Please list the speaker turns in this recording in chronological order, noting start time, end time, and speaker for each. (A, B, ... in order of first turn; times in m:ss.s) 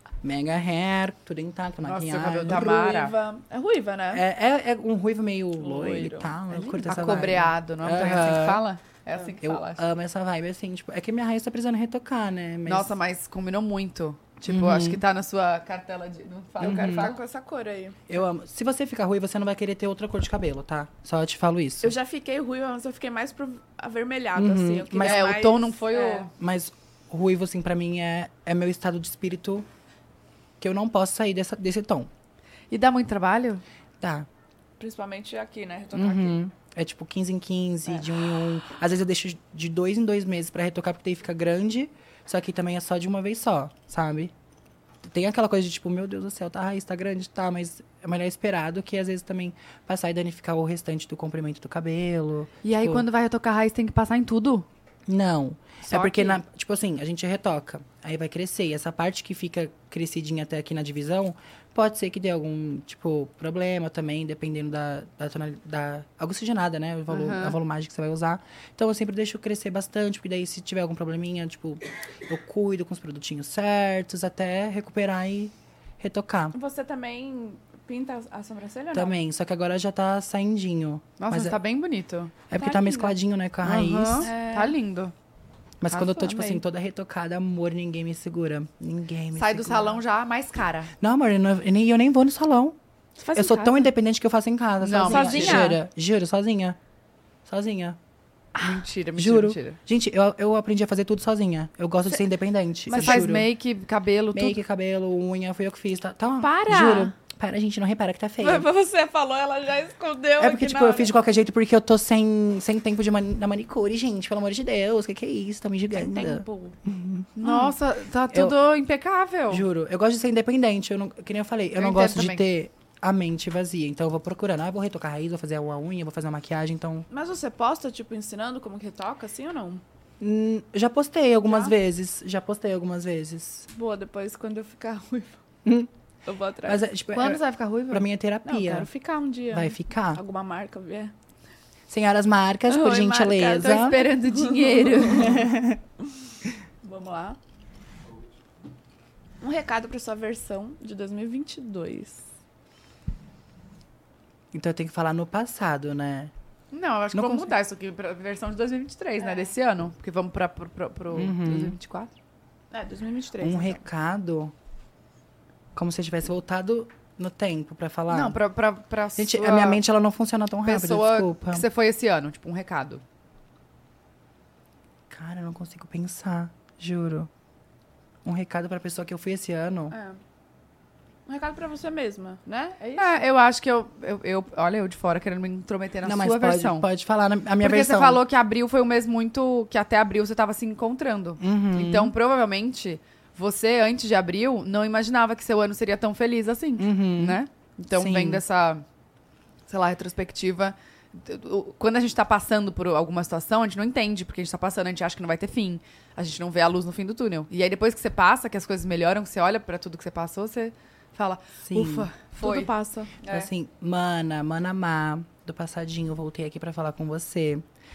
0:00.2-0:02.8 A
0:01.8-0:03.1 B
0:02.5-0:04.2 C
0:04.1-0:08.6 A
0:05.6-0:06.9 C
0:06.8-0:09.8 B
0:09.4-0:13.0 A
0:12.6-0:17.2 B
0:14.5-0:15.0 A
0:16.6-0:17.1 A
0:16.6-0:18.0 C
0:18.1-0:21.9 A
0:21.8-0:26.3 C
0:24.3-0:25.3 A
0:25.0-0:26.3 B
0:26.3-0:29.7 A
0:30.6-0:32.1 A
0:32.7-0:33.6 B
0:34.0-0:34.3 A
0:34.8-0:36.4 C
0:35.9-0:44.3 A
0:45.0-0:53.0 A
0:52.6-0:54.6 B
0:55.1-1:16.6 A
0:55.9-0:56.4 B
1:07.1-1:07.6 B
1:16.5-1:19.2 C
1:18.9-1:21.6 A
1:21.2-1:22.3 B
1:22.5-1:24.3 A
1:22.6-1:23.2 C
1:23.6-1:25.1 B
1:24.2-1:24.8 C
1:25.8-1:30.0 A
1:25.9-1:26.6 C
1:29.3-1:30.9 B
1:31.0-1:32.8 A
1:33.2-1:33.9 C
1:33.3-1:36.8 A
1:34.8-1:35.7 B
1:35.0-1:35.8 C
1:37.4-1:38.0 A
1:38.5-1:39.8 B
1:38.6-1:43.5 A
1:42.9-1:43.3 C
1:42.9-1:44.6 B
1:44.3-1:48.7 A
1:46.4-1:47.1 C
1:48.4-1:51.1 C
1:50.4-1:57.6 A
1:55.9-1:56.8 C
1:57.4-1:59.6 B
1:58.3-1:58.6 A
1:59.5-2:07.1 A
2:01.8-2:02.4 B
2:07.1-2:09.8 C
2:10.2-2:13.7 A
2:13.7-2:15.4 C
2:15.6-2:15.9 A
2:16.2-2:16.8 C
2:16.6-2:18.9 A
2:17.1-2:18.0 B
2:18.4-2:21.1 C
2:19.5-2:20.2 A
2:21.9-2:24.1 A
2:22.7-2:25.4 C
2:23.6-2:25.4 B
2:25.1-2:25.8 A
2:26.8-2:27.4 C
2:29.4-2:32.2 C
2:34.5-2:36.3 A
2:36.7-2:42.1 B
2:37.1-2:37.5 A
2:39.2-2:39.5 C
2:41.1-2:41.8 A
2:42.7-2:43.8 C
2:43.4-2:44.5 A
2:45.7-2:48.4 A
2:48.1-2:49.8 B
2:49.2-2:51.6 A
2:50.6-2:53.0 B
2:55.1-2:57.3 A
2:58.2-2:59.9 A
2:59.9-3:00.2 C
3:01.3-3:03.2 C
3:02.9-3:06.9 B
3:06.0-3:08.2 A
3:07.6-3:18.8 B
3:11.4-3:12.1 A
3:16.8-3:17.4 A
3:17.9-3:18.4 A
3:19.7-3:33.5 B
3:31.6-3:32.1 A
3:32.3-3:33.2 C
3:33.3-3:37.6 A